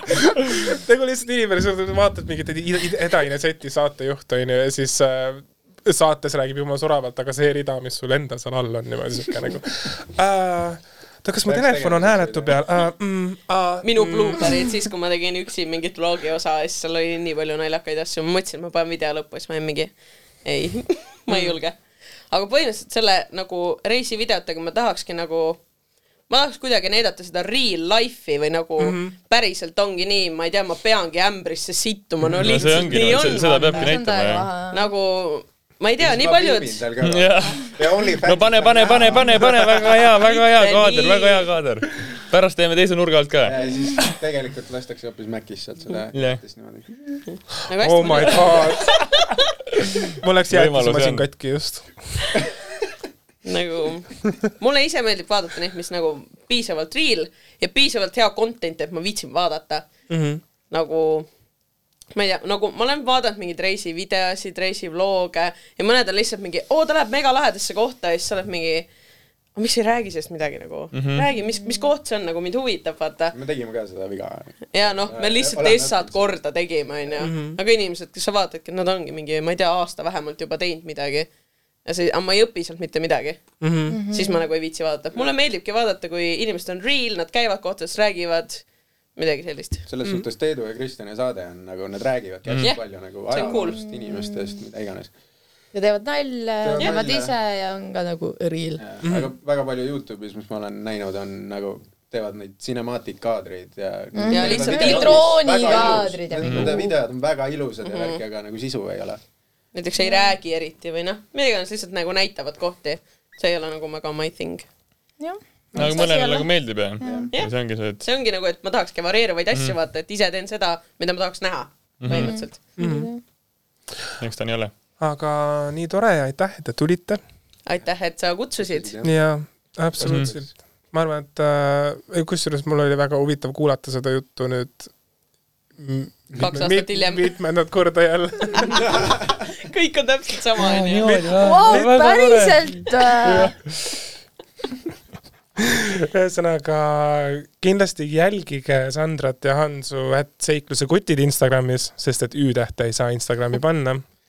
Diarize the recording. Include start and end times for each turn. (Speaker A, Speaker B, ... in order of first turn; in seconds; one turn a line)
Speaker A: 0.6-14.6
Speaker B: 11.4-12.6
Speaker C: 13.8-19.9
Speaker C: 20.4-21.8
Speaker A: 21.3-21.5
Speaker C: 22.3-25.6
Speaker C: 26.3-33.9
Speaker A: 28.8-29.1
Speaker D: 32.3-34.5
Speaker E: 33.0-34.9
Speaker C: 34.7-36.9
Speaker B: 36.0-39.9
Speaker D: 37.0-44.1
Speaker C: 39.9-41.5
Speaker B: 43.4-46.9
Speaker D: 46.1-46.4
Speaker C: 47.3-49.2
Speaker A: 47.8-49.1
Speaker A: 50.1-52.4
Speaker D: 50.5-51.3
Speaker C: 53.4-59.9
Speaker A: 60.1-60.4
Speaker C: 60.7-61.3
Speaker C: 62.1-68.9
Speaker C: 69.5-73.3
Speaker D: 70.9-71.2
Speaker B: 73.3-76.3
Speaker C: 74.7-81.3
Speaker A: 77.2-77.6
Speaker C: 81.8-83.5
Speaker A: 83.6-84.0
Speaker E: 83.9-84.4
Speaker C: 84.1-89.8
Speaker B: 89.9-95.1
Speaker D: 92.5-92.7
Speaker C: 92.6-93.8
Speaker E: 93.3-94.5
Speaker E: 95.7-98.8
Speaker B: 96.6-97.3
Speaker B: 98.8-109.2
Speaker A: 99.0-99.3
Speaker E: 104.1-107.0
Speaker C: 104.3-106.0
Speaker D: 106.4-106.8
Speaker C: 107.8-108.2
Speaker C: 109.7-114.6
Speaker E: 110.0-110.3
Speaker E: 115.2-116.5
Speaker D: 115.7-118.0
Speaker B: 117.0-117.3
Speaker E: 117.0-117.3
Speaker C: 117.3-122.6
Speaker D: 122.0-122.4
Speaker E: 122.1-123.2
Speaker A: 122.8-123.1
Speaker D: 124.2-124.7
Speaker A: 125.0-127.2
Speaker C: 127.7-128.9
Speaker B: 128.6-129.2
Speaker A: 129.0-134.9
Speaker B: 129.9-130.5
Speaker D: 130.0-130.3
Speaker A: 135.8-138.8
Speaker C: 136.4-137.3
Speaker C: 138.6-138.8
Speaker B: 138.8-139.3
Speaker C: 139.6-141.1
Speaker E: 140.6-143.5
Speaker D: 140.7-143.6
Speaker A: 141.0-143.4
Speaker A: 145.6-154.0